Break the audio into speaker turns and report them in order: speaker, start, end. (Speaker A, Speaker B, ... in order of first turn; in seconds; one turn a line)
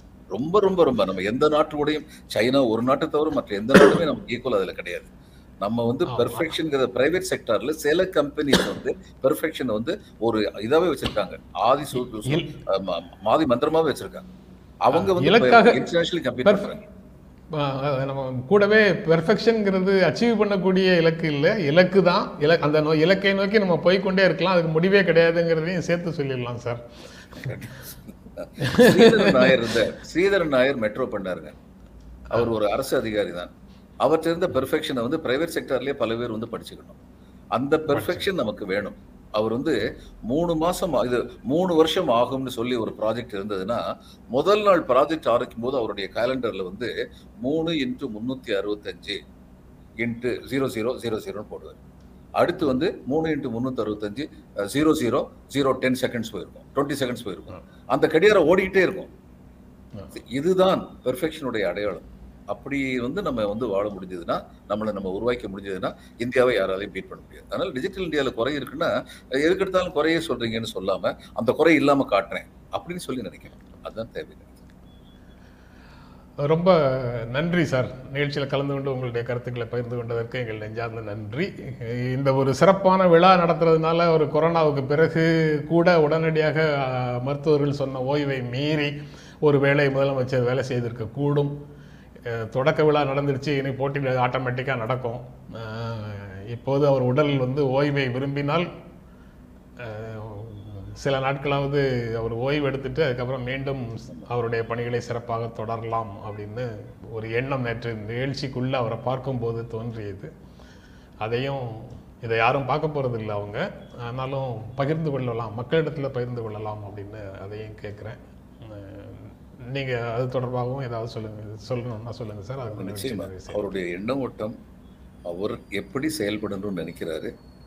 Speaker A: 0.3-5.1
Speaker A: 5.6-14.2
Speaker B: 6.1-6.5
Speaker A: 14.8-16.8
Speaker B: 14.9-15.8
Speaker B: 17.5-26.8
Speaker A: 27.4-31.5
Speaker B: 28.6-29.5
Speaker A: 32.3-33.5
Speaker A: 34.0-37.0
Speaker A: 37.5-49.2
Speaker B: 37.9-38.2
Speaker A: 50.0-51.8
Speaker A: 52.4-59.1
Speaker A: 60.1-74.6
Speaker B: 76.4-88.9
Speaker B: 89.4-91.6
Speaker B: 92.2-98.7
Speaker B: 99.8-110.3
Speaker B: 111.2-123.7
Speaker A: 122.7-124.5
Speaker A: 125.3-127.3